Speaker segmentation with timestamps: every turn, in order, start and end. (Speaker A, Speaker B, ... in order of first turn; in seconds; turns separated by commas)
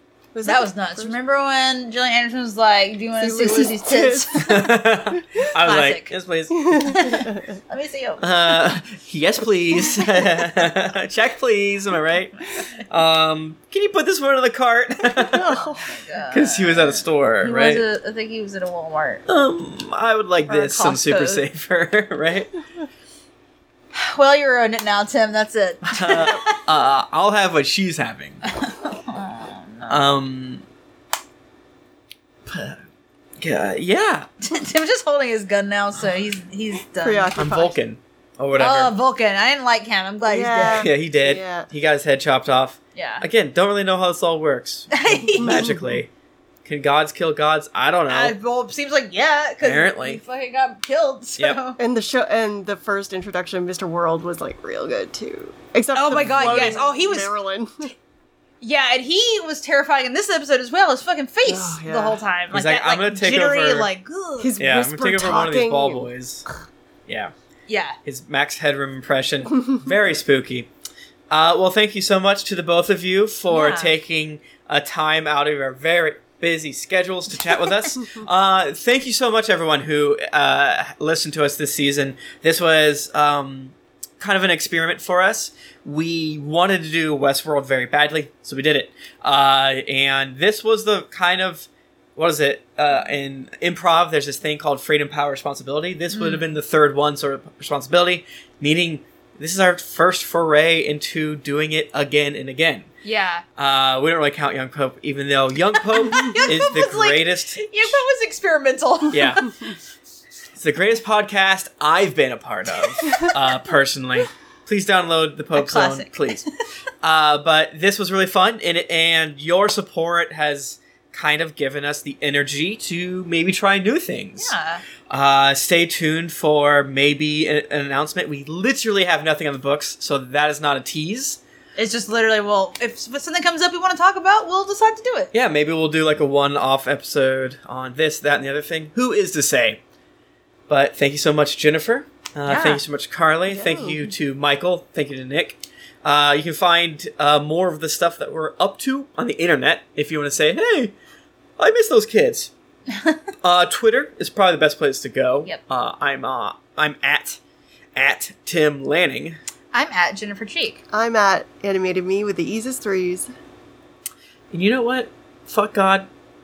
Speaker A: 0.3-1.2, Speaker B: 0.4-4.7, Speaker A: 3.2-4.4, Speaker C: 4.3-7.0, Speaker B: 5.6-6.1, Speaker A: 6.6-7.5, Speaker B: 6.8-8.7, Speaker C: 8.2-15.6, Speaker A: 15.2-15.8, Speaker B: 15.6-19.2, Speaker C: 16.3-17.8, Speaker C: 19.3-22.5, Speaker B: 20.5-21.4, Speaker B: 23.9-26.6, Speaker C: 25.9-28.4, Speaker B: 28.4-30.1, Speaker C: 29.9-30.6, Speaker C: 32.5-32.8, Speaker C: 33.4-34.3, Speaker B: 34.4-37.3, Speaker A: 37.0-37.8, Speaker C: 37.4-38.9, Speaker B: 38.6-40.9, Speaker A: 40.3-41.7, Speaker C: 40.6-46.1, Speaker B: 43.0-43.2, Speaker B: 44.9-45.7, Speaker A: 45.4-46.0, Speaker C: 46.6-48.4, Speaker B: 48.1-51.8, Speaker C: 49.6-50.2, Speaker A: 51.8-57.9, Speaker B: 55.9-57.4, Speaker B: 58.6-64.5, Speaker A: 61.5-62.2, Speaker C: 62.5-63.9, Speaker A: 64.4-66.0, Speaker C: 64.6-66.5, Speaker C: 67.1-67.3, Speaker B: 67.7-68.0, Speaker C: 68.0-70.7, Speaker C: 71.3-102.9, Speaker B: 73.5-73.9, Speaker B: 96.1-96.5, Speaker B: 103.0-103.4, Speaker C: 103.6-108.0, Speaker B: 106.0-109.6, Speaker C: 109.1-109.5, Speaker C: 110.6-116.5, Speaker B: 115.5-116.5, Speaker C: 117.0-124.5, Speaker B: 124.4-124.8, Speaker C: 125.1-131.4, Speaker B: 131.8-135.3, Speaker C: 135.3-139.8, Speaker C: 140.7-150.9, Speaker B: 142.5-142.8, Speaker A: 143.5-144.1, Speaker C: 151.6-152.5, Speaker C: 153.4-157.4, Speaker C: 157.9-159.4, Speaker B: 159.7-160.8, Speaker A: 160.9-163.3, Speaker C: 164.5-166.1